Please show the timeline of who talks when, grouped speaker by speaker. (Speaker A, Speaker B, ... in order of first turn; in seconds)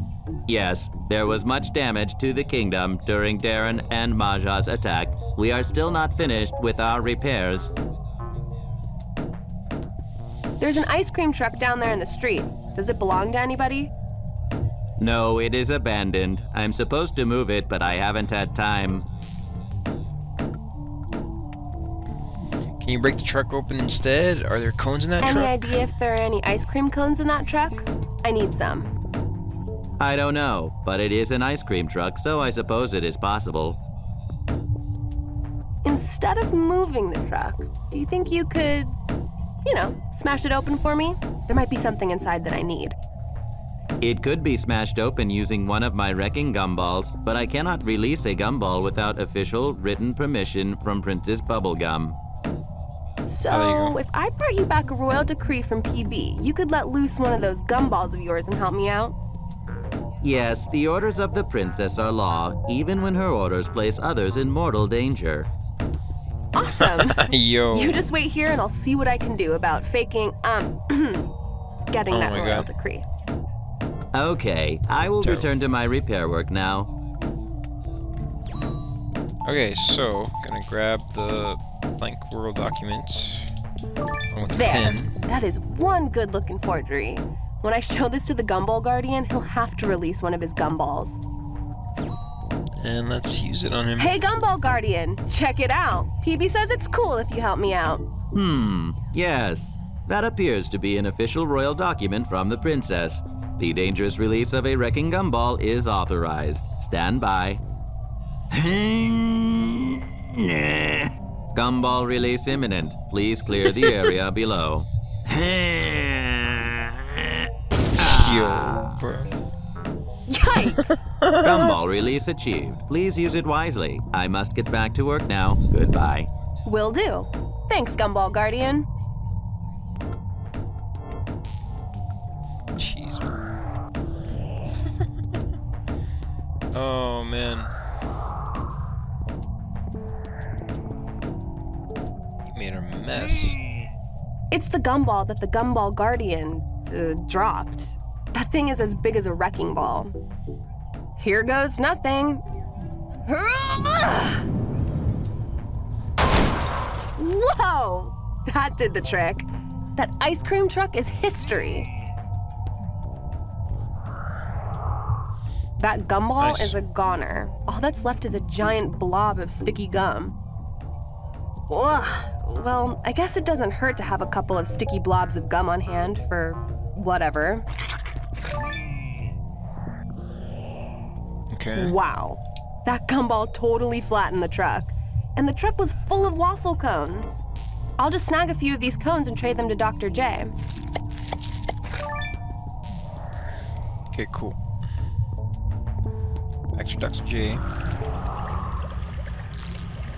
Speaker A: 0.5-7.7, 15.0-19.1, 30.0-33.8, 44.0-52.2, 60.2-65.5, 74.1-76.9, 98.3-107.6, 108.5-117.4, 118.0-118.9, 121.4-126.3
Speaker B: 10.6-13.9, 25.2-28.9, 35.8-38.9, 39.6-43.0, 53.2-59.1, 66.5-71.3, 71.9-73.0, 84.5-91.2, 94.0-98.0, 120.3-121.0, 126.7-128.9, 144.5-150.1, 151.2-152.4, 153.3-154.4, 157.2-161.9, 165.8-170.3, 171.7-177.7, 181.8-187.4, 188.0-190.5
Speaker C: 22.8-25.6, 53.5-54.0, 67.0-68.0, 72.1-72.7, 75.2-75.5, 79.4-83.5, 84.3-85.1, 92.8-94.2, 117.9-119.3, 121.2-121.7, 132.8-133.5, 136.7-137.7, 142.4-143.6, 166.4-166.8, 181.5-181.9, 194.1-194.6, 196.8-197.6